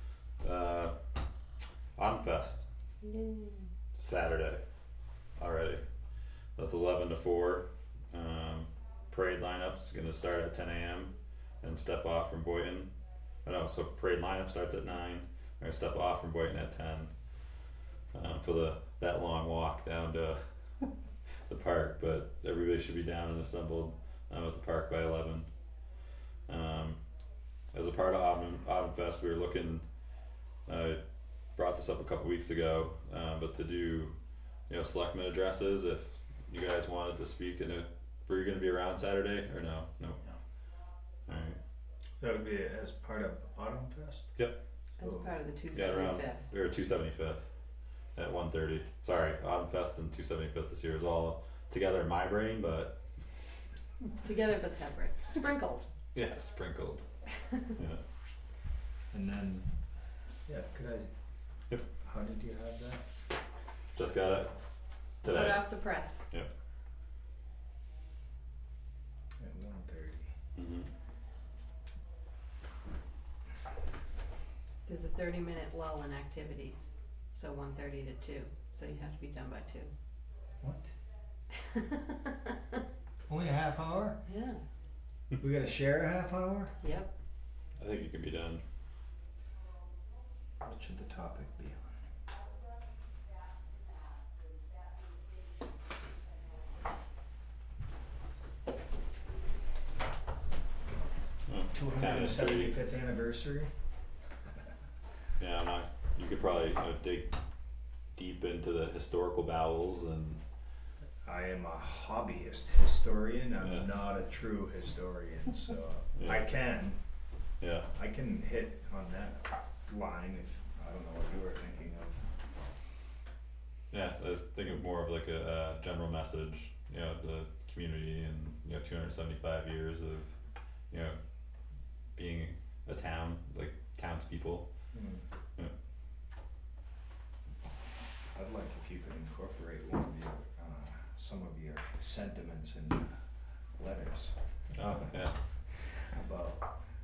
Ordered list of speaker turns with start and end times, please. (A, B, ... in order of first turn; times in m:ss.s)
0:00.4-0:00.9 A
0:02.0-0:02.7 A
0:03.0-0:03.6 B
0:03.9-0:04.6 A
0:05.4-0:05.8 A
0:06.6-0:12.9 A
0:13.4-0:17.1 A
0:18.1-0:20.9 A
0:21.5-0:25.5 A
0:26.5-0:27.0 A
0:27.7-0:29.8 A
0:30.7-0:31.0 A
0:31.6-0:34.2 A
0:34.7-0:40.2 A
0:41.3-0:41.6 A
0:42.2-0:44.3 C
0:45.0-0:46.4 B
0:45.0-0:45.3 C
0:45.7-0:47.5 A
0:48.2-0:53.0 A
0:54.2-0:55.8 B
0:56.1-0:57.0 A
0:57.7-0:58.0 A
0:59.1-0:59.7 C
1:00.5-1:01.1 C
1:02.0-1:03.0 C
1:03.9-1:04.5 A
1:05.2-1:05.7 A
1:05.2-1:06.3 B
1:09.4-1:10.3 C
1:10.6-1:10.9 A
1:14.8-1:19.9 B
1:21.6-1:22.8 B
1:23.3-1:24.2 C
1:24.2-1:24.6 B
1:25.4-1:26.7 C
1:26.8-1:27.1 B
1:27.8-1:28.6 A
1:30.6-1:31.9 C
1:41.5-1:42.7 A
1:41.7-1:43.7 C
1:45.4-1:47.4 A
1:48.1-1:50.4 A
1:51.2-1:57.0 C
1:53.6-1:54.0 A
1:56.2-1:56.4 A
1:57.6-1:57.9 A
1:57.9-2:02.3 C
2:03.9-2:10.3 A
2:10.9-2:11.2 A
2:12.2-2:14.7 A
2:14.9-2:15.2 C
2:18.3-2:23.2 C
2:23.8-2:24.4 C
2:24.7-2:25.4 A
2:26.0-2:26.6 C